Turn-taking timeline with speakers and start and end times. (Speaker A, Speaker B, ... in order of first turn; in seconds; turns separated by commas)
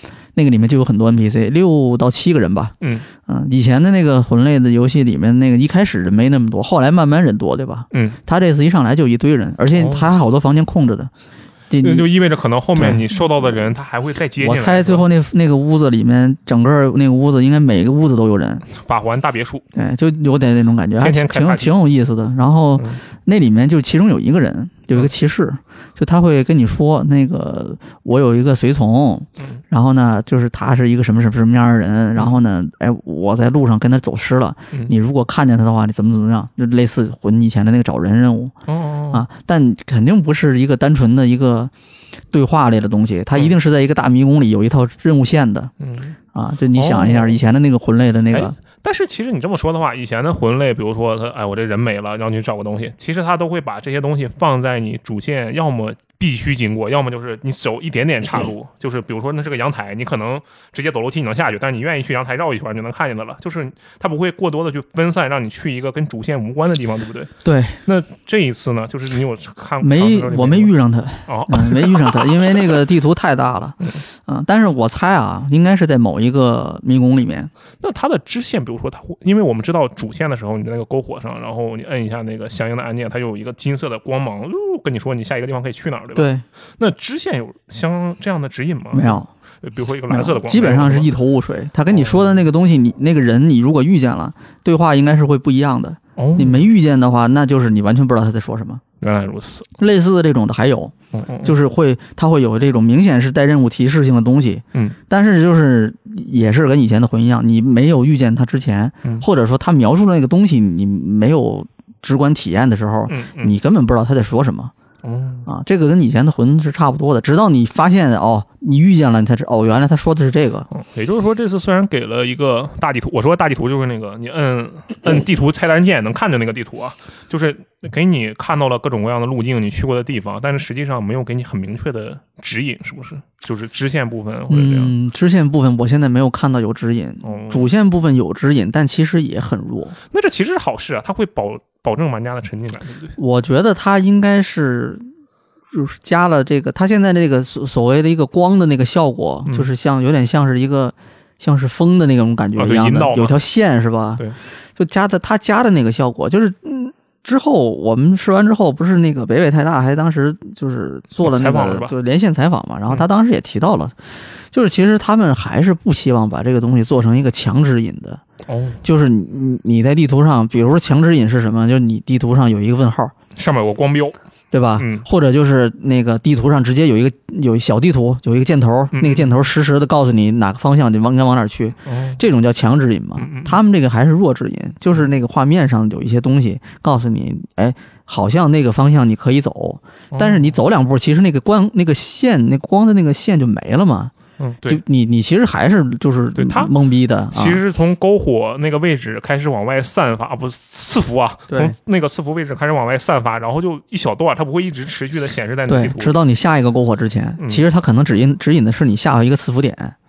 Speaker A: 0.3-2.7, Speaker B: 2.8-3.1, Speaker A: 3.3-11.1, Speaker B: 7.9-8.2, Speaker B: 9.7-10.1, Speaker A: 11.7-12.1, Speaker B: 11.8-15.1, Speaker A: 12.8-13.0, Speaker A: 14.4-18.6, Speaker B: 18.6-19.6, Speaker A: 19.7-38.5, Speaker B: 21.0-21.7, Speaker B: 38.7-39.2, Speaker A: 39.1-41.7, Speaker A: 42.3-45.7, Speaker B: 45.8-46.2, Speaker A: 46.3-48.5, Speaker B: 46.7-47.4, Speaker B: 48.3-67.3, Speaker A: 67.4-67.8, Speaker B: 67.8-70.7, Speaker A: 69.8-77.5, Speaker B: 71.3-72.8, Speaker B: 77.8-86.3, Speaker A: 86.1-86.4, Speaker B: 86.8-91.1, Speaker A: 88.9-89.3, Speaker A: 90.1-98.8, Speaker B: 91.9-92.4, Speaker B: 96.2-96.6, Speaker B: 99.0-99.7, Speaker A: 99.8-114.7, Speaker B: 101.1-101.6, Speaker B: 113.1-113.5, Speaker B: 115.0-115.5, Speaker A: 115.5-120.7, Speaker B: 120.7-134.9, Speaker A: 134.5-139.9, Speaker B: 137.2-137.7, Speaker B: 140.1-143.2, Speaker A: 143.2-145.0, Speaker A: 145.7-154.2, Speaker B: 152.6-153.4, Speaker A: 154.8-163.9, Speaker B: 161.2-161.9, Speaker A: 164.5-168.2, Speaker B: 168.4-168.8, Speaker A: 168.8-173.1, Speaker B: 173.3-174.2, Speaker A: 174.5-194.1, Speaker B: 174.8-175.1, Speaker B: 178.9-179.3, Speaker B: 181.8-182.2, Speaker B: 183.2-183.6, Speaker B: 190.1-190.6, Speaker B: 194.4-194.8, Speaker A: 194.7-197.6, Speaker B: 196.3-196.7, Speaker B: 197.3-206.2, Speaker A: 201.5-201.7, Speaker A: 205.7-209.9